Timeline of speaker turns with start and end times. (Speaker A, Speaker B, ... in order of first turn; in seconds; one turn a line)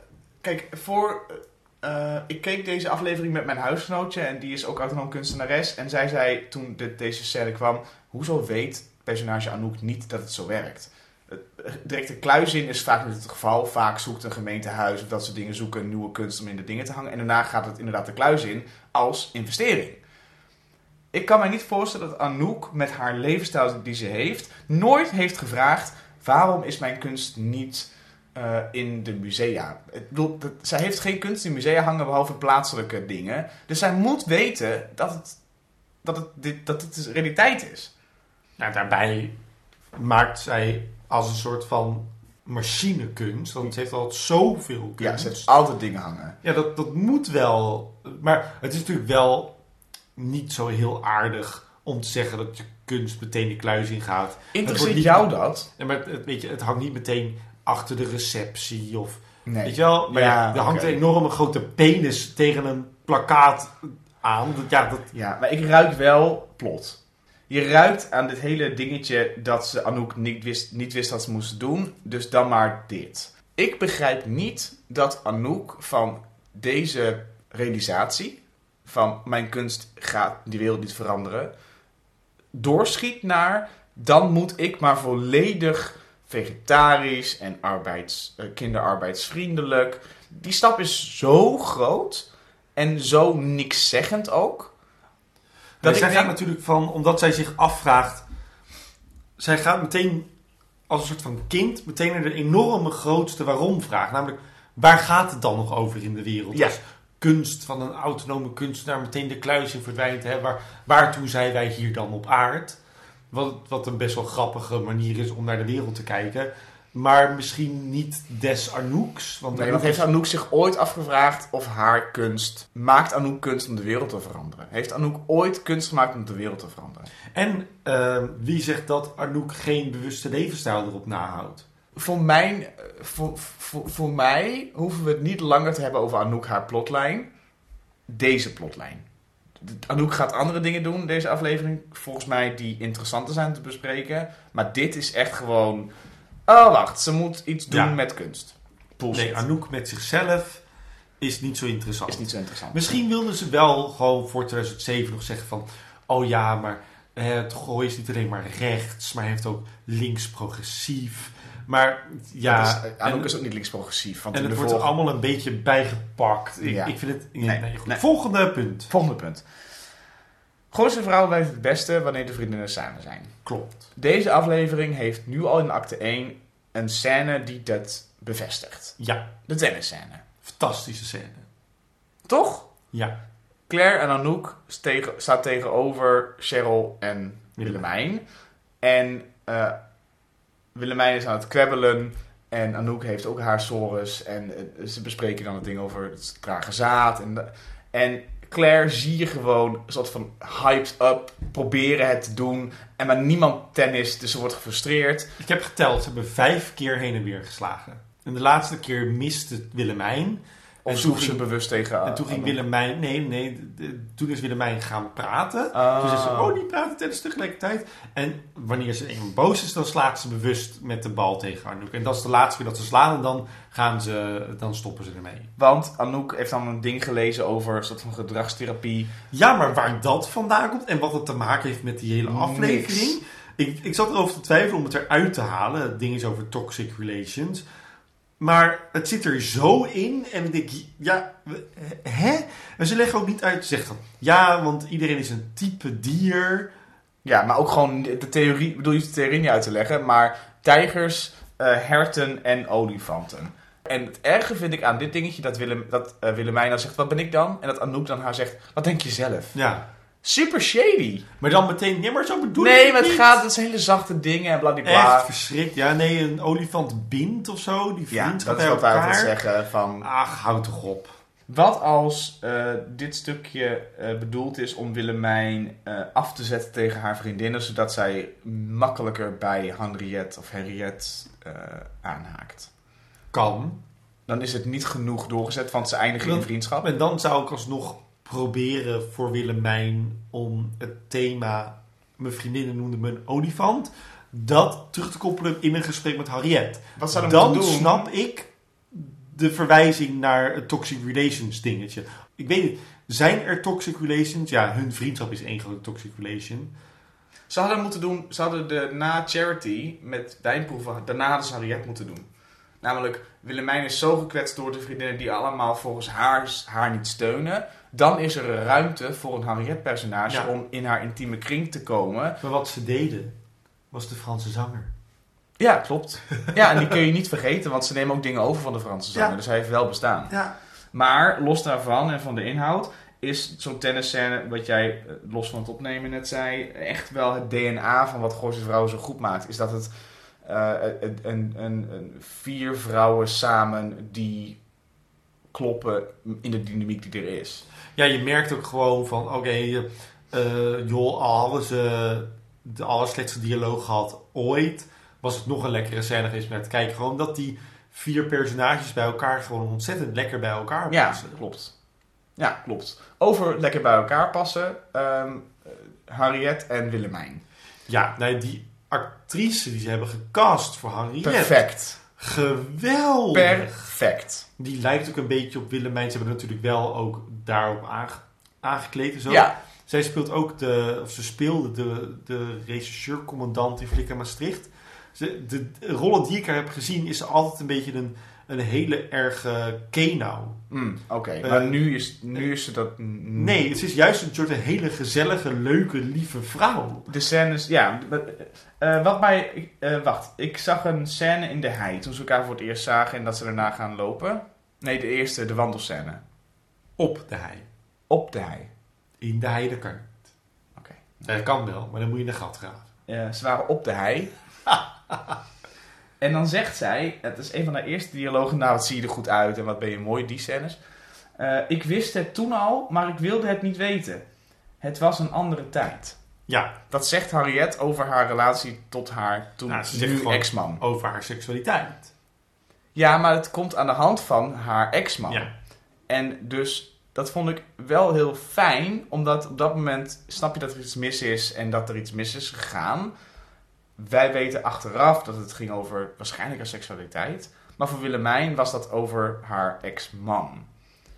Speaker A: 0.4-20.0
Speaker A: 21.1-35.4
Speaker A: 36.0-37.9
Speaker B: 38.6-39.4
Speaker B: 40.0-45.5
Speaker A: 45.0-46.4
Speaker B: 46.4-49.6
Speaker B: 50.2-65.1
Speaker A: 54.5-55.7
Speaker A: 59.5-61.0
Speaker A: 65.1-81.5
Speaker A: 82.5-94.7
Speaker B: 95.8-98.2
Speaker A: 95.8-96.3
Speaker B: 99.4-100.3
Speaker B: 100.9-112.8
Speaker B: 113.3-120.1
Speaker A: 119.5-127.1
Speaker B: 127.3-131.7
Speaker A: 132.0-137.3
Speaker A: 138.1-139.1
Speaker A: 139.6-145.9
Speaker A: 146.5-149.4
Speaker B: 147.7-148.0
Speaker B: 149.1-150.6
Speaker B: 151.2-163.3
Speaker A: 152.1-152.8
Speaker A: 162.5-164.9
Speaker B: 164.3-168.9
Speaker A: 166.6-166.9
Speaker A: 167.4-168.0
Speaker A: 168.9-169.4
Speaker A: 170.7-173.4
Speaker B: 173.4-173.9
Speaker A: 173.9-180.2
Speaker B: 179.0-179.3
Speaker B: 180.4-181.5
Speaker A: 182.3-182.7
Speaker A: 183.7-188.2
Speaker A: 188.8-189.8
Speaker A: 190.8-205.3
Speaker B: 205.4-211.4
Speaker A: 210.8-212.6
Speaker B: 212.0-225.5
Speaker A: 215.7-216.6
Speaker A: 225.6-229.1
Speaker B: 229.3-237.7
Speaker A: 232.3-233.2
Speaker B: 238.4-246.7
Speaker A: 247.2-259.6
Speaker B: 259.5-259.9
Speaker A: 260.2-261.2
Speaker B: 261.4-263.4
Speaker A: 262.6-265.3
Speaker B: 264.9-269.3
Speaker A: 268.1-270.1
Speaker B: 270.0-271.1
Speaker A: 271.5-282.7
Speaker B: 283.3-283.8
Speaker A: 284.3-286.9
Speaker B: 286.2-306.7
Speaker A: 297.0-298.1
Speaker A: 307.5-312.3
Speaker A: 312.8-322.4
Speaker B: 322.4-323.4
Speaker B: 323.9-324.9
Speaker A: 325.6-330.3
Speaker B: 330.3-330.6
Speaker A: 330.9-339.9
Speaker A: 340.4-344.6
Speaker A: 345.5-347.6
Speaker B: 348.0-361.4
Speaker A: 360.9-361.7
Speaker A: 362.4-367.4
Speaker B: 367.9-374.0
Speaker A: 371.2-372.0
Speaker A: 373.3-374.5
Speaker B: 374.6-390.6
Speaker A: 379.3-379.6
Speaker A: 390.7-393.6
Speaker B: 391.4-391.8
Speaker B: 393.4-397.1
Speaker A: 397.1-406.2
Speaker B: 407.0-407.7
Speaker A: 408.1-408.7
Speaker B: 409.2-410.1
Speaker A: 410.8-411.2
Speaker B: 411.2-412.9
Speaker A: 413.1-414.3
Speaker B: 414.7-415.4
Speaker A: 416.2-420.8
Speaker A: 421.4-424.2
Speaker A: 424.8-426.2
Speaker B: 426.5-426.7
Speaker A: 426.9-430.8
Speaker B: 429.7-432.1
Speaker A: 432.9-435.5
Speaker A: 436.1-443.1
Speaker A: 444.0-450.7